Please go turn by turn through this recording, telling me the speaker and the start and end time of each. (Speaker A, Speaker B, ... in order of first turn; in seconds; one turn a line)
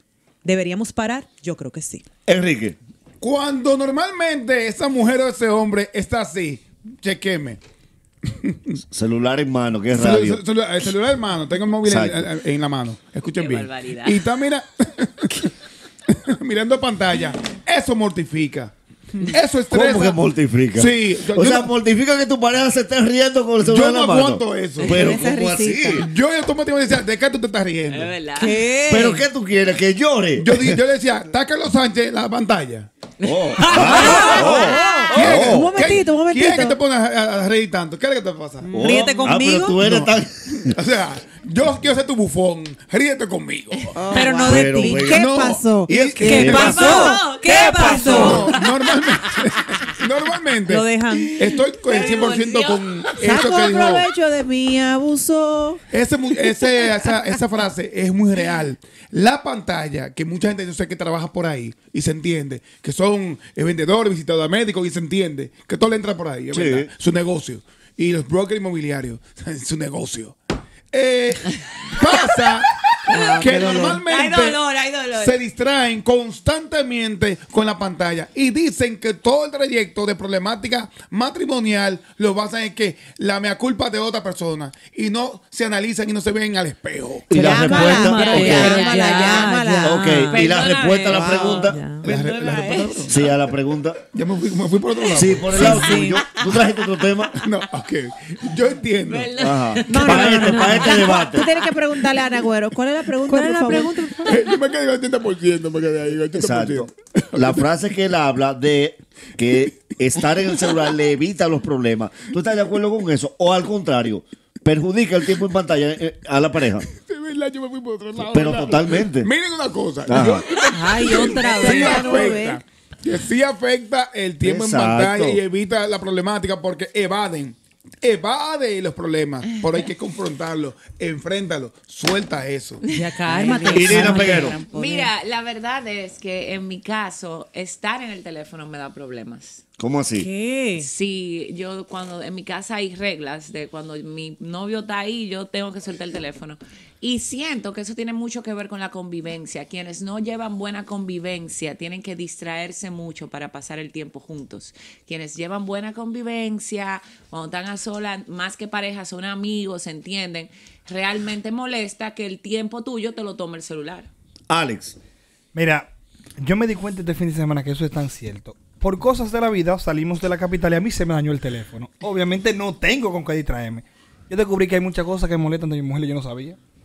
Speaker A: 0.4-2.0
Speaker B: 2.3-2.8
Speaker C: 3.2-7.6
Speaker C: 8.3-8.8
Speaker B: 8.9-10.4
Speaker C: 9.9-15.5
Speaker B: 11.8-12.3
Speaker D: 13.2-14.2
Speaker C: 16.1-20.2
Speaker B: 19.7-26.1
Speaker C: 20.8-21.7
Speaker C: 23.6-25.1
Speaker E: 24.8-26.0
Speaker C: 26.0-28.1
Speaker D: 27.9-28.6
Speaker A: 28.4-29.2
Speaker B: 28.9-30.8
Speaker C: 30.4-32.9
Speaker B: 33.2-35.8
Speaker D: 33.3-35.2
Speaker E: 33.8-36.8
Speaker A: 33.9-34.7
Speaker C: 34.0-34.4
Speaker C: 35.1-38.8
Speaker E: 38.6-39.1
Speaker B: 38.7-40.7
Speaker A: 38.8-39.8
Speaker C: 39.8-40.1
Speaker C: 40.7-44.0
Speaker E: 44.0-48.3
Speaker A: 44.1-45.1
Speaker B: 44.4-45.3
Speaker C: 45.1-47.0
Speaker B: 45.9-46.9
Speaker A: 46.2-48.5
Speaker D: 46.4-49.1
Speaker C: 47.6-54.1
Speaker A: 50.7-51.3
Speaker D: 51.5-52.8
Speaker E: 53.2-55.8
Speaker C: 55.9-70.4
Speaker B: 66.5-66.9
Speaker C: 70.9-74.6
Speaker D: 73.1-75.4
Speaker E: 73.1-74.0
Speaker C: 75.1-87.4
Speaker B: 87.3-88.8
Speaker E: 87.3-90.2
Speaker A: 87.3-90.4
Speaker D: 88.2-89.5
Speaker B: 89.8-91.8
Speaker D: 90.3-93.1
Speaker E: 91.1-91.7
Speaker A: 91.6-92.0
Speaker C: 92.0-93.2
Speaker B: 93.1-94.0
Speaker C: 94.1-95.7
Speaker B: 95.1-97.4
Speaker D: 95.5-96.7
Speaker A: 95.6-96.1
Speaker C: 97.4-99.3
Speaker D: 99.1-101.5
Speaker B: 99.4-101.5
Speaker E: 99.9-103.9
Speaker A: 100.1-100.9
Speaker A: 103.3-104.4
Speaker C: 104.2-107.6
Speaker B: 106.3-116.9
Speaker C: 116.8-132.8
Speaker B: 118.3-119.3
Speaker B: 120.1-120.4
Speaker A: 120.7-122.2
Speaker E: 121.4-122.6
Speaker B: 124.4-125.4
Speaker A: 132.9-134.5
Speaker E: 133.2-135.1
Speaker B: 133.7-134.6
Speaker D: 133.8-139.6
Speaker B: 139.8-140.3
Speaker A: 140.2-140.9
Speaker D: 140.8-164.1
Speaker B: 164.5-165.0
Speaker F: 165.5-176.6